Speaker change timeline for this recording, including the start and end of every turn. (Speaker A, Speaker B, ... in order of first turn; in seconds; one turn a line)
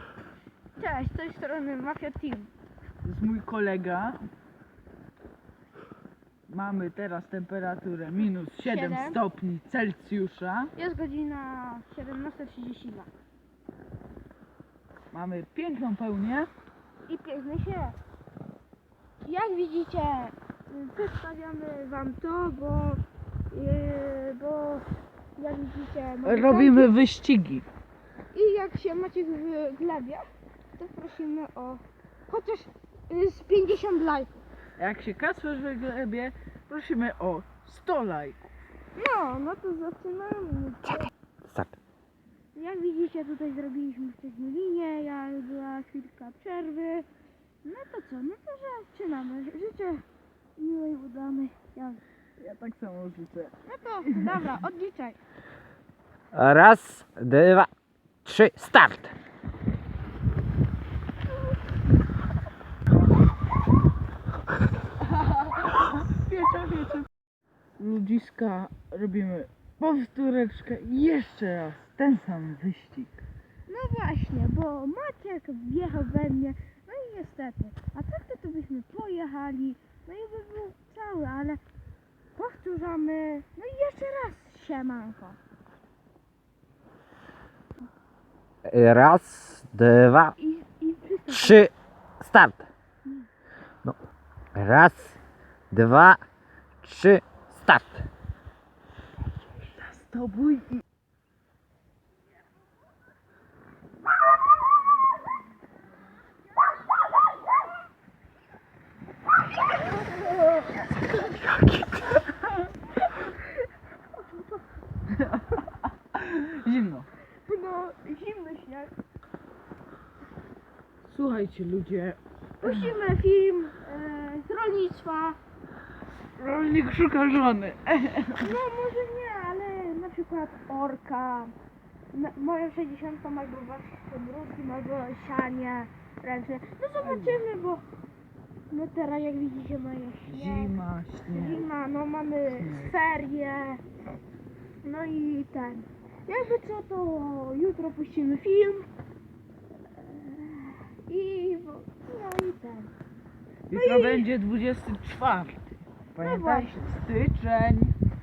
Speaker A: 0.8-2.5
Speaker B: 3.0-4.2
Speaker B: 6.5-10.7
Speaker A: 8.6-9.2
Speaker A: 10.8-13.1
Speaker B: 15.1-16.5
Speaker A: 17.1-18.0
Speaker A: 19.2-24.8
Speaker A: 25.4-26.9
Speaker B: 26.2-27.6
Speaker A: 28.3-30.3
Speaker A: 30.8-34.4
Speaker B: 34.8-38.5
Speaker A: 38.9-41.1
Speaker C: 41.4-41.8
Speaker A: 42.5-47.1
Speaker A: 47.6-50.0
Speaker A: 50.6-52.0
Speaker B: 52.4-53.5
Speaker A: 53.6-55.2
Speaker B: 54.0-54.5
Speaker C: 56.3-57.7
Speaker C: 58.2-59.1
Speaker B: 65.5-67.0
Speaker B: 67.8-73.2
Speaker A: 73.7-81.6
Speaker A: 82.3-85.4
Speaker C: 88.7-90.3
Speaker A: 90.4-91.7
Speaker C: 91.3-92.7
Speaker C: 94.5-95.2
Speaker C: 95.7-96.2
Speaker C: 96.8-98.1
Speaker B: 99.8-100.8
Speaker B: 115.1-117.1
Speaker A: 117.5-118.9
Speaker B: 121.0-122.9
Speaker A: 122.6-125.4
Speaker B: 126.4-128.5
Speaker A: 128.4-131.5
Speaker A: 132.1-137.8
Speaker B: 137.0-137.4
Speaker A: 138.7-140.7
Speaker B: 140.3-141.7
Speaker A: 141.3-143.8
Speaker B: 142.5-142.9
Speaker A: 144.8-148.9
Speaker A: 150.0-152.9
Speaker B: 153.7-157.9
Speaker A: 153.7-154.3
Speaker A: 156.2-156.9